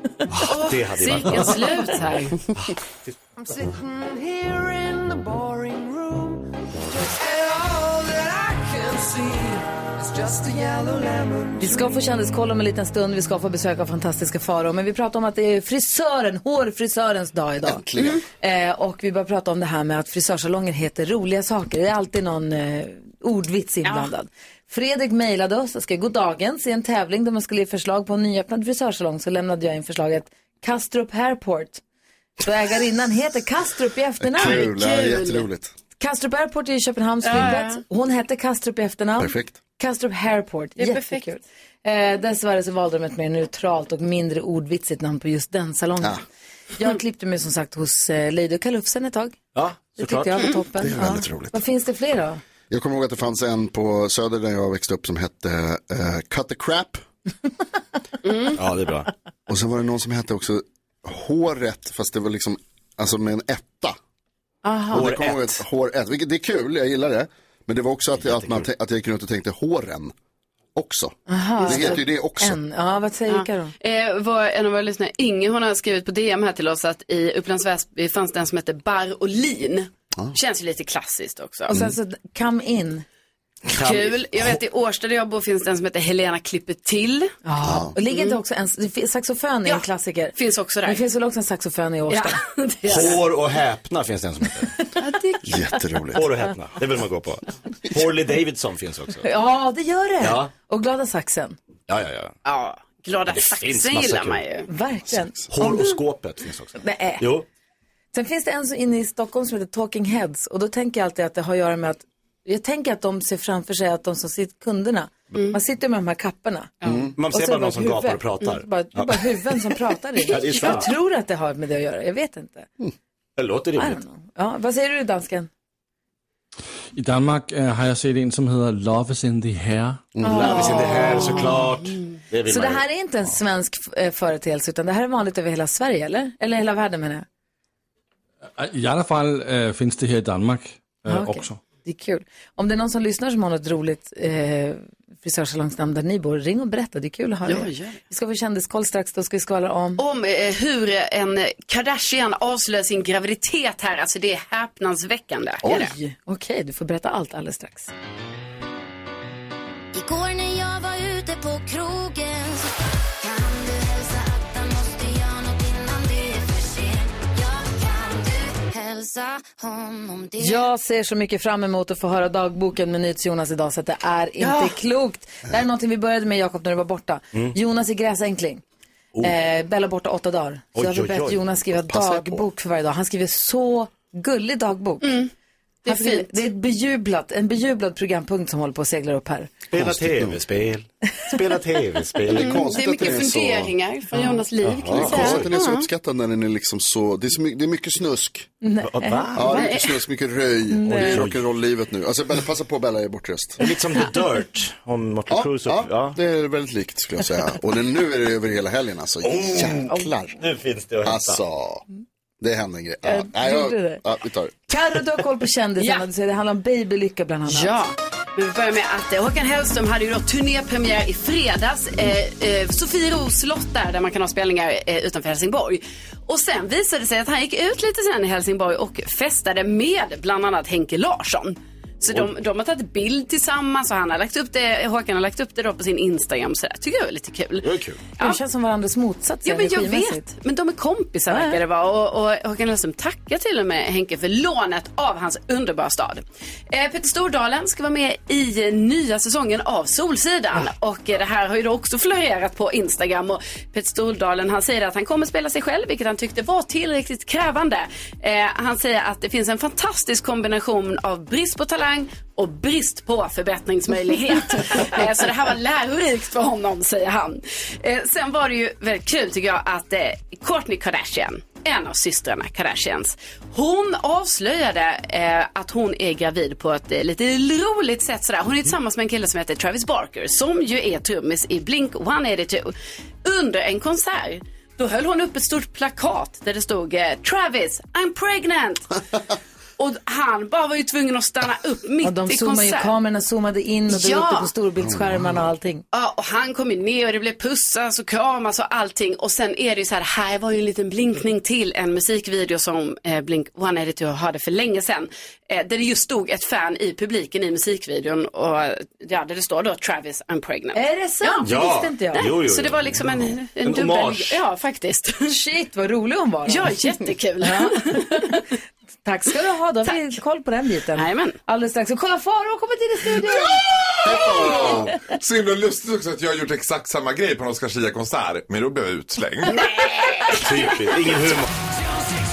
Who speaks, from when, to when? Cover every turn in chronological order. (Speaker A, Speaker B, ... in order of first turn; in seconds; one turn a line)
Speaker A: 0.3-2.5
Speaker B: 0.4-1.7
Speaker C: 3.4-6.3
Speaker C: 7.0-11.9
Speaker D: 11.6-17.8
Speaker E: 17.6-18.2
Speaker A: 18.0-18.2
Speaker D: 18.4-31.8
Speaker D: 32.4-34.6
Speaker E: 34.2-35.7
Speaker A: 34.4-35.4
Speaker D: 36.0-46.2
Speaker A: 37.2-37.8
Speaker E: 39.2-39.6
Speaker A: 40.8-41.3
Speaker D: 46.8-49.4
Speaker B: 49.5-50.5
Speaker D: 50.0-52.4
Speaker E: 50.8-51.6
Speaker E: 52.7-57.0
Speaker A: 58.2-58.5
Speaker B: 58.5-59.1
Speaker E: 59.5-64.0
Speaker D: 64.6-65.0
Speaker B: 64.9-65.6
Speaker E: 64.9-70.1
Speaker B: 68.2-68.7
Speaker E: 70.7-72.6
Speaker D: 71.3-73.7
Speaker A: 71.6-72.0
Speaker A: 73.3-81.7
Speaker D: 81.7-83.0
Speaker A: 83.7-87.3
Speaker B: 83.7-84.6
Speaker D: 87.4-92.4
Speaker E: 87.6-87.9
Speaker A: 88.1-88.4
Speaker A: 89.6-91.0
Speaker A: 92.1-93.2
Speaker B: 92.8-94.7
Speaker D: 95.0-95.8
Speaker E: 95.4-96.3
Speaker B: 96.1-99.3
Speaker D: 99.2-101.6
Speaker B: 100.2-100.5
Speaker B: 101.9-102.3
Speaker A: 102.4-104.7
Speaker B: 103.3-104.4
Speaker D: 104.7-106.0
Speaker E: 105.1-105.5
Speaker B: 105.5-107.5
Speaker D: 106.8-107.2
Speaker D: 108.1-116.7
Speaker A: 116.8-117.1
Speaker E: 116.8-117.1
Speaker B: 117.1-119.3
Speaker D: 117.3-122.7
Speaker B: 120.3-120.9
Speaker A: 120.5-120.8
Speaker B: 123.4-124.0
Speaker D: 123.8-125.5
Speaker F: 126.9-130.1
Speaker E: 130.1-130.6
Speaker D: 130.2-131.5
Speaker B: 130.2-132.8
Speaker A: 130.4-132.0
Speaker D: 132.5-137.2
Speaker F: 138.6-141.6
Speaker D: 141.1-150.0
Speaker A: 147.4-148.0
Speaker A: 150.0-155.9
Speaker D: 155.6-157.9
Speaker G: 159.9-170.6
Speaker D: 170.4-178.6
Speaker D: 179.2-185.2
Speaker B: 180.7-181.4
Speaker E: 181.8-182.4
Speaker A: 185.0-185.3
Speaker A: 185.8-186.4
Speaker D: 185.9-189.5
Speaker B: 189.7-192.7
Speaker E: 189.7-190.4
Speaker E: 192.2-193.8
Speaker A: 192.3-195.9
Speaker B: 194.6-195.5
Speaker E: 194.8-198.5
Speaker D: 198.6-199.7
Speaker B: 198.8-199.5
Speaker E: 199.3-203.6
Speaker A: 199.5-199.9
Speaker D: 200.7-201.2
Speaker B: 200.9-201.4
Speaker B: 203.6-206.2
Speaker E: 205.3-210.4
Speaker B: 209.2-211.4
Speaker E: 211.0-211.8
Speaker E: 212.4-214.5
Speaker D: 213.0-214.0
Speaker D: 214.7-217.7
Speaker A: 215.8-216.0
Speaker A: 217.5-238.4
Speaker B: 237.6-238.0
Speaker D: 238.2-240.3
Speaker A: 239.4-282.7
Speaker D: 241.3-241.6
Speaker A: 283.2-289.0
Speaker A: 289.8-292.9
Speaker D: 292.0-295.8
Speaker A: 293.9-294.5
Speaker E: 294.8-295.5
Speaker A: 295.9-311.5
Speaker D: 310.7-312.2
Speaker B: 311.4-314.4
Speaker A: 312.1-315.3
Speaker D: 315.3-316.8
Speaker A: 316.4-318.4
Speaker D: 317.4-318.4
Speaker D: 319.0-324.9
Speaker A: 320.9-321.4
Speaker H: 323.5-329.9
Speaker E: 324.0-324.9
Speaker B: 330.4-331.5